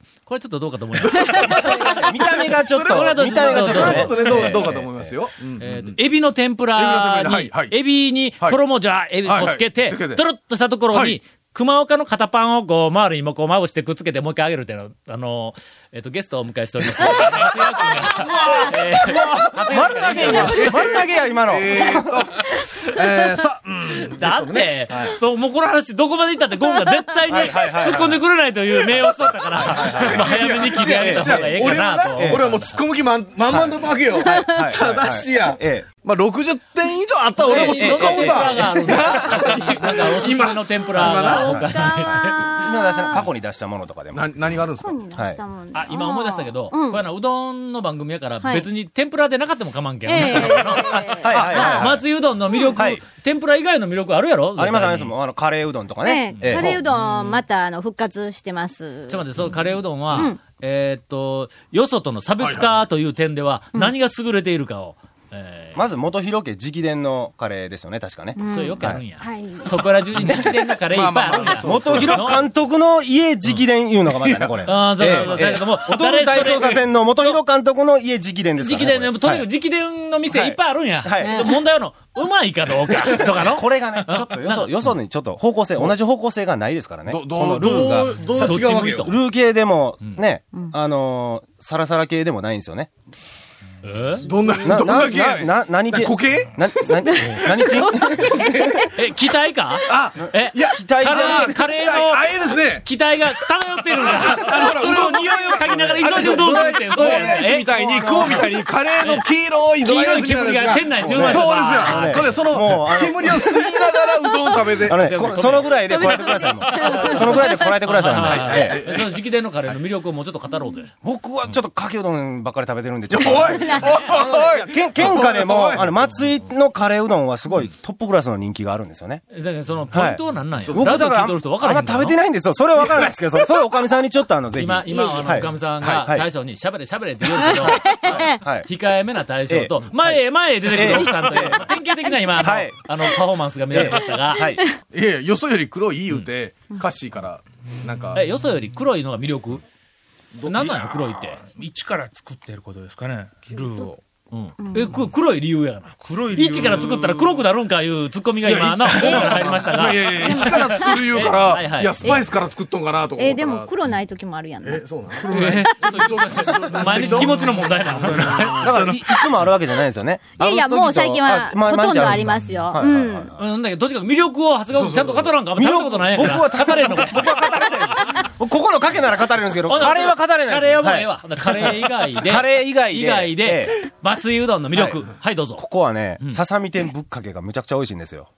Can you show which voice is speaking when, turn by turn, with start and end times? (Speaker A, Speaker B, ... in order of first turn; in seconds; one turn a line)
Speaker A: 0.2-4.7
Speaker B: 1.1-1.8
Speaker C: 1.1-5.1
Speaker B: 2.7-6.0
Speaker A: 5.6-20.7
Speaker B: 6.7-7.8
Speaker B: 9.2-10.2
Speaker B: 10.9-11.2
Speaker B: 18.1-25.2
Speaker C: 19.0-22.2
Speaker A: 23.9-32.8
Speaker C: 27.3-28.2
Speaker C: 29.5-32.6
Speaker B: 29.6-41.6
Speaker C: 33.5-35.9
Speaker C: 37.4-39.8
Speaker A: 37.4-42.4
Speaker C: 41.0-44.4
Speaker D: 41.0-43.3
Speaker B: 44.1-45.0
Speaker D: 44.8-47.0
Speaker C: 45.1-45.4
Speaker A: 45.7-55.1
Speaker D: 48.4-48.7
Speaker D: 50.0-51.9
Speaker C: 51.2-52.1
Speaker B: 51.3-51.8
Speaker D: 52.5-52.8
Speaker C: 52.8-53.0
Speaker C: 54.6-56.8
Speaker D: 56.0-59.4
Speaker A: 56.4-57.4
Speaker A: 59.1-65.8
Speaker D: 60.1-60.4
Speaker B: 62.4-62.7
Speaker C: 65.7-69.0
Speaker D: 68.3-69.9
Speaker A: 68.4-72.4
Speaker C: 70.2-70.5
Speaker B: 70.3-72.4
Speaker C: 71.6-79.5
Speaker B: 74.1-75.3
Speaker A: 74.6-77.3
Speaker B: 76.5-76.8
Speaker A: 78.6-84.9
Speaker C: 80.2-81.5
Speaker D: 81.2-81.5
Speaker C: 83.1-92.9
Speaker B: 87.1-89.1
Speaker A: 88.4-89.2
Speaker A: 93.8-94.2
Speaker B: 94.2-97.8
Speaker C: 94.6-98.6
Speaker D: 97.5-97.8
Speaker B: 98.3-98.8
Speaker A: 98.9-108.4
Speaker B: 99.9-102.8
Speaker C: 100.6-101.7
Speaker B: 103.9-115.2
Speaker C: 104.2-108.5
Speaker A: 109.8-112.7
Speaker C: 111.0-113.3
Speaker D: 113.2-113.9
Speaker C: 114.8-118.8
Speaker A: 114.9-120.9
Speaker D: 115.9-117.8
Speaker B: 118.0-119.8
Speaker C: 121.0-129.2
Speaker B: 123.1-126.0
Speaker D: 123.3-124.1
Speaker A: 129.3-132.2
Speaker C: 129.9-136.2
Speaker B: 130.6-131.0
Speaker A: 134.6-144.5
Speaker D: 134.9-135.3
Speaker B: 135.8-136.1
Speaker D: 137.5-138.4
Speaker C: 138.2-138.7
Speaker C: 139.5-141.7
Speaker C: 142.3-142.8
Speaker C: 143.7-144.6
Speaker D: 144.4-144.8
Speaker B: 144.9-148.2
Speaker A: 148.1-149.6
Speaker B: 150.3-151.3
Speaker A: 150.4-151.4
Speaker E: 151.6-154.0
Speaker A: 154.3-162.4
Speaker D: 154.6-154.9
Speaker E: 156.0-157.1
Speaker B: 158.4-163.7
Speaker D: 159.0-161.2
Speaker D: 163.2-166.0
Speaker B: 164.6-168.9
Speaker E: 165.3-165.7
Speaker A: 165.3-169.4
Speaker C: 168.4-173.4
Speaker D: 170.4-173.3
Speaker A: 173.3-177.5
Speaker B: 174.7-175.3
Speaker C: 175.5-183.9
Speaker A: 179.7-185.6
Speaker C: 184.7-185.0
Speaker C: 185.5-188.3